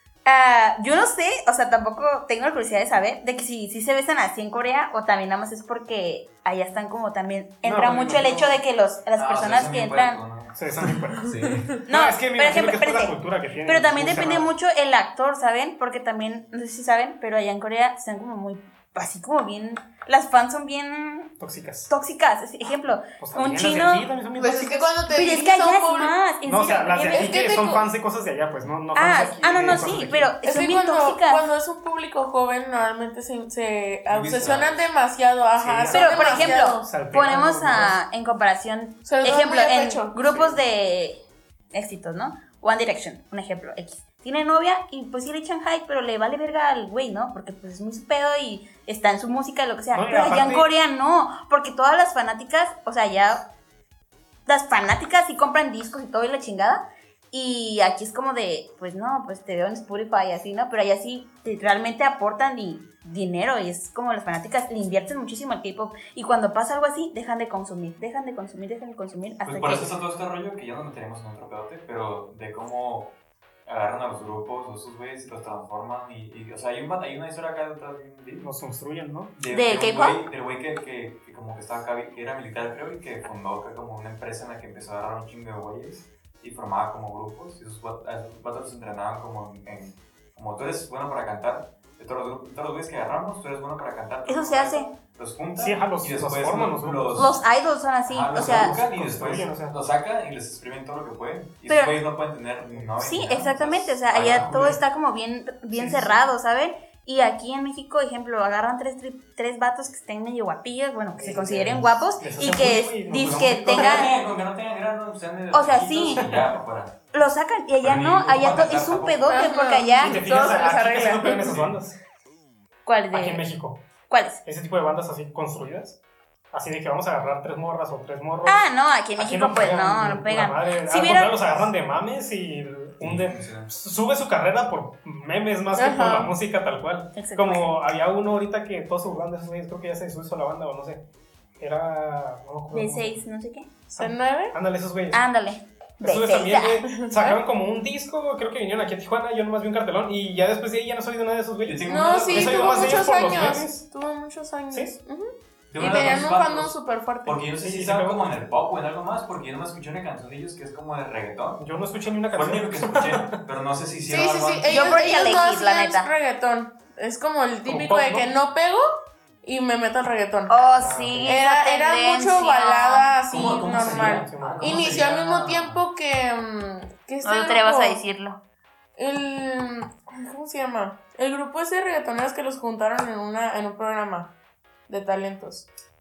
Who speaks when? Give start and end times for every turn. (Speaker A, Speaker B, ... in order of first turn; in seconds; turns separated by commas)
Speaker A: 0.2-10.2, Speaker B: 7.6-8.6, Speaker C: 9.2-11.7, Speaker B: 10.6-14.5, Speaker A: 11.9-21.3, Speaker B: 21.4-21.9, Speaker A: 21.9-24.1, Speaker B: 23.1-24.9, Speaker D: 24.4-26.1, Speaker A: 25.1-27.3, Speaker B: 26.4-30.3, Speaker D: 27.1-27.8, Speaker A: 28.9-31.4, Speaker D: 30.4-36.9, Speaker C: 34.1-34.9, Speaker B: 35.6-38.0, Speaker A: 35.9-41.2, Speaker D: 39.0-40.1, Speaker B: 40.3-40.6, Speaker A: 41.7-53.4, Speaker B: 49.9-50.7, Speaker A: 54.5-69.9, Speaker C: 69.4-73.1, Speaker C: 73.7-78.5, Speaker B: 78.4-79.3, Speaker C: 79.3-97.4, Speaker A: 79.5-80.2, Speaker A: 94.2-94.9, Speaker B: 95.6-97.3, Speaker A: 97.2-98.8, Speaker C: 98.1-104.8, Speaker B: 98.4-99.7, Speaker A: 101.7-102.0, Speaker A: 103.0-114.1, Speaker B: 105.7-106.3, Speaker B: 111.1-114.1, Speaker C: 113.2-117.1, Speaker A: 115.5-116.2, Speaker A: 117.1-120.2, Speaker C: 117.8-119.4, Speaker D: 119.3-121.5, Speaker B: 120.0-122.0, Speaker C: 121.4-121.7, Speaker A: 122.8-123.4, Speaker B: 123.1-123.8, Speaker A: 124.1-124.4, Speaker B: 124.4-126.0, Speaker B: 126.5-128.6, Speaker A: 128.4-131.7, Speaker B: 129.2-141.0, Speaker C: 133.0-133.7, Speaker D: 135.8-136.3, Speaker A: 137.1-137.7, Speaker B: 141.6-143.1, Speaker A: 142.7-143.7, Speaker B: 143.9-145.2, Speaker D: 144.0-144.6, Speaker A: 145.1-146.8, Speaker B: 146.0-153.8, Speaker D: 146.9-147.4, Speaker C: 151.6-152.9, Speaker D: 151.8-157.4, Speaker B: 154.7-154.9, Speaker C: 155.7-161.6, Speaker B: 157.6-158.3, Speaker B: 161.6-163.4, Speaker C: 162.3-165.3, Speaker D: 164.1-168.9, Speaker A: 164.7-166.1, Speaker B: 167.7-168.3, Speaker D: 169.4-170.6, Speaker A: 170.5-173.1, Speaker B: 170.8-171.4, Speaker D: 171.2-178.0, Speaker C: 173.3-175.8, Speaker B: 173.7-174.9, Speaker A: 177.2-178.4, Speaker D: 178.9-184.3, Speaker D: 184.9-185.7